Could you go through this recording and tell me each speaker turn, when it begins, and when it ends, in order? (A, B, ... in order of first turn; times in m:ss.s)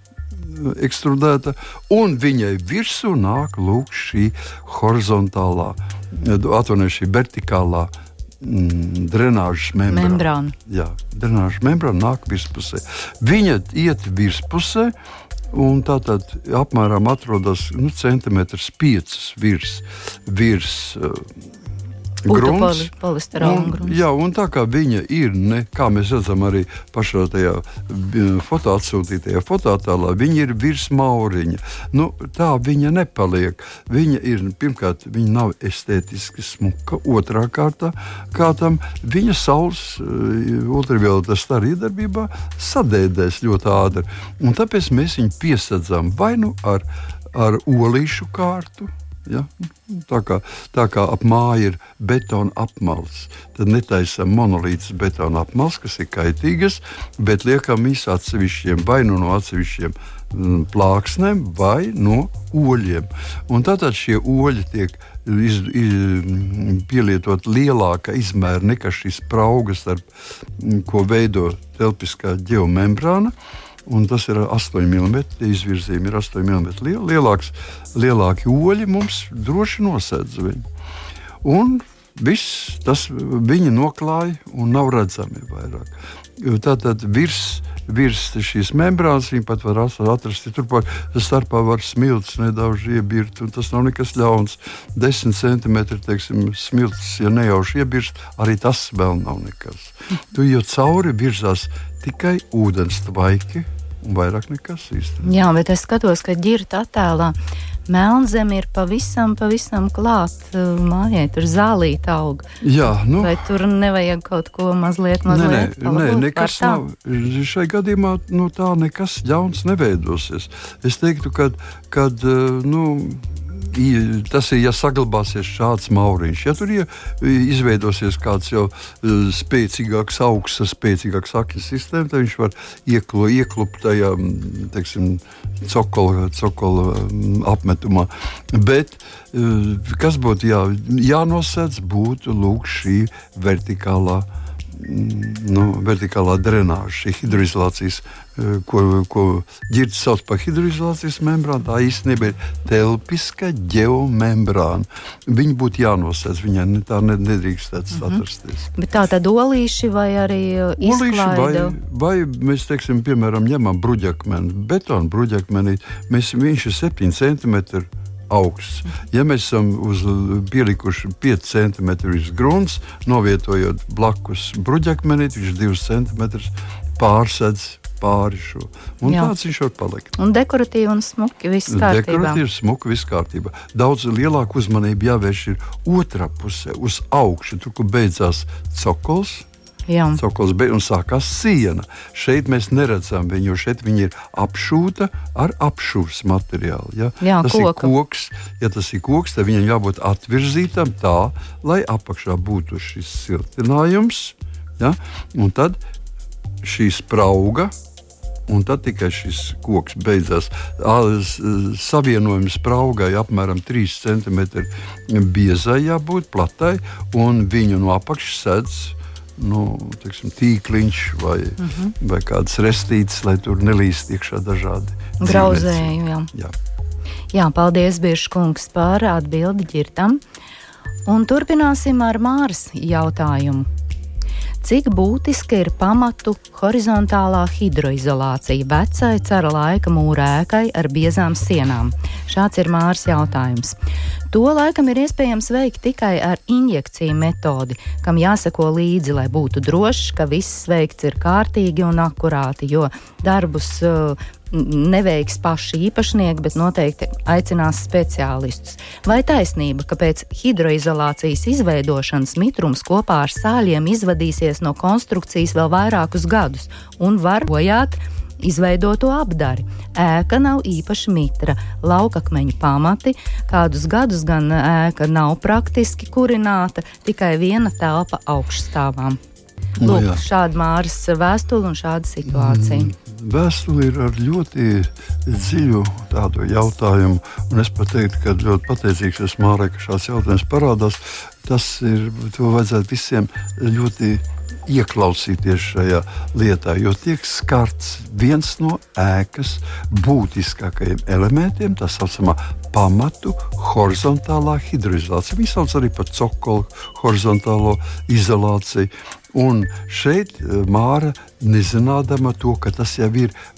0:00.3-0:15.0 A
0:09.9-0:10.6 B
0:15.5-0:21.3 A
0:22.2-1:10.0 A
0:22.3-0:24.0 B
1:10.6-1:13.3 A
1:13.9-1:20.6 A
1:21.4-1:45.3 A
1:45.2-1:47.4 B
1:47.9-1:52.5 B
1:52.6-1:53.4 A
1:53.2-1:56.8 B
1:55.3-2:38.7 A
2:38.0-2:38.2 B
2:38.8-2:41.8 B
2:40.8-3:00.2 A
2:59.0-2:59.3 B
3:00.2-3:02.4 B
3:01.7-3:09.5 A
3:09.9-3:10.2 B
3:10.2-3:25.8 A
3:17.2-3:17.9 B
3:26.6-3:27.7 A
3:28.5-3:46.6 A
3:41.6-3:41.9 B
3:45.2-3:46.3 B
3:47.3-3:50.2 B
3:51.1-3:53.7 B
3:54.6-4:03.8 B
4:04.3-4:39.2 B
4:39.8-4:40.2 A
4:39.8-4:42.9 B
4:42.3-5:13.3 A